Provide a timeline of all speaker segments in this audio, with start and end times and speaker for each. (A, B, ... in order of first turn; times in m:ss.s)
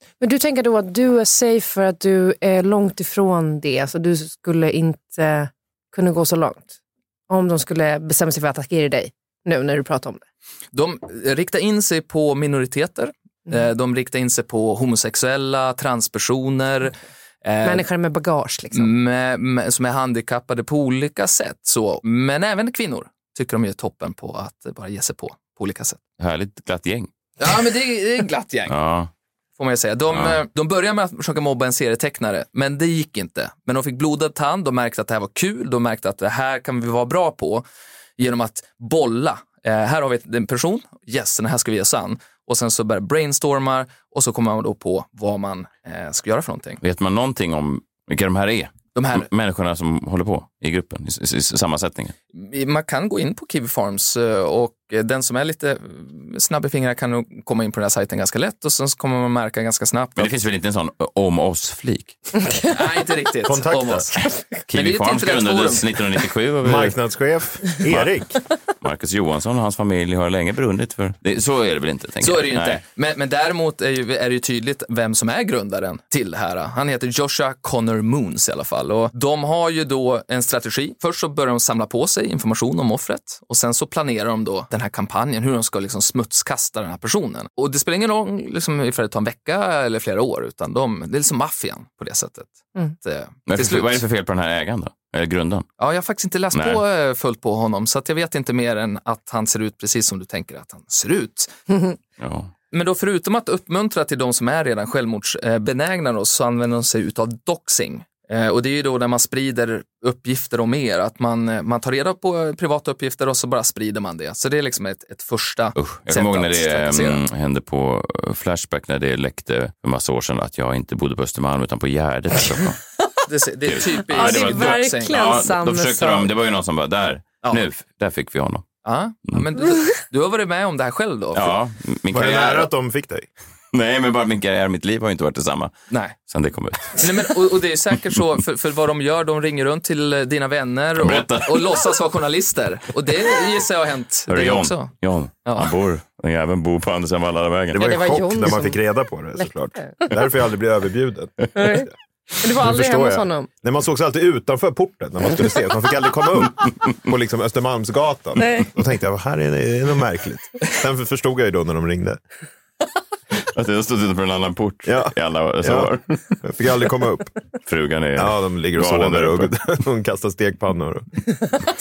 0:00.2-0:06.7 A
0:07.3-0:10.2 A
0:10.7-0:17.8 B
0:17.6-0:18.9 A
0:18.7-0:26.0 B
0:26.2-0:27.5 C
0:27.4-0:28.7 B
0:28.7-0:29.1 C
0:29.6-0:37.6 B
0:30.1-0:30.4 C
0:38.2-0:46.8 B
0:46.8-0:52.1 C
0:48.9-0:49.3 B
0:52.3-1:00.3 B
1:00.2-1:02.2 C
1:02.7-1:05.9 B
1:03.4-1:04.1 D
1:04.7-1:07.0 C
1:06.6-1:08.4 D
1:07.8-1:08.2 C
1:08.7-1:12.8 C
1:12.2-1:34.0 B
1:33.5-1:35.6 C
1:35.8-1:41.8 B
1:36.5-1:36.8 C
1:42.2-1:42.5 C
1:42.7-1:57.2 B
1:55.7-2:02.8 C
2:03.2-2:05.1 B
2:03.6-2:08.6 C
2:04.1-2:06.3 A
2:07.4-2:07.7 B
2:08.8-2:11.6 B
2:11.3-2:12.7 C
2:12.1-2:13.3 D
2:13.7-2:15.7 C
2:15.9-2:16.2 B
2:16.2-2:17.3 C
2:16.9-2:24.9 B
2:21.0-2:21.8 C
2:24.3-2:27.8 C
2:25.4-2:25.7 B
2:27.7-2:28.8 A
2:27.7-2:31.9 D
2:29.4-2:30.2 A
2:31.5-2:33.5 A
2:32.5-2:42.2 D
2:38.4-2:38.7 A
2:43.3-2:46.4 C
2:44.8-2:47.3 D
2:47.6-2:49.5 C
2:48.2-2:51.2 D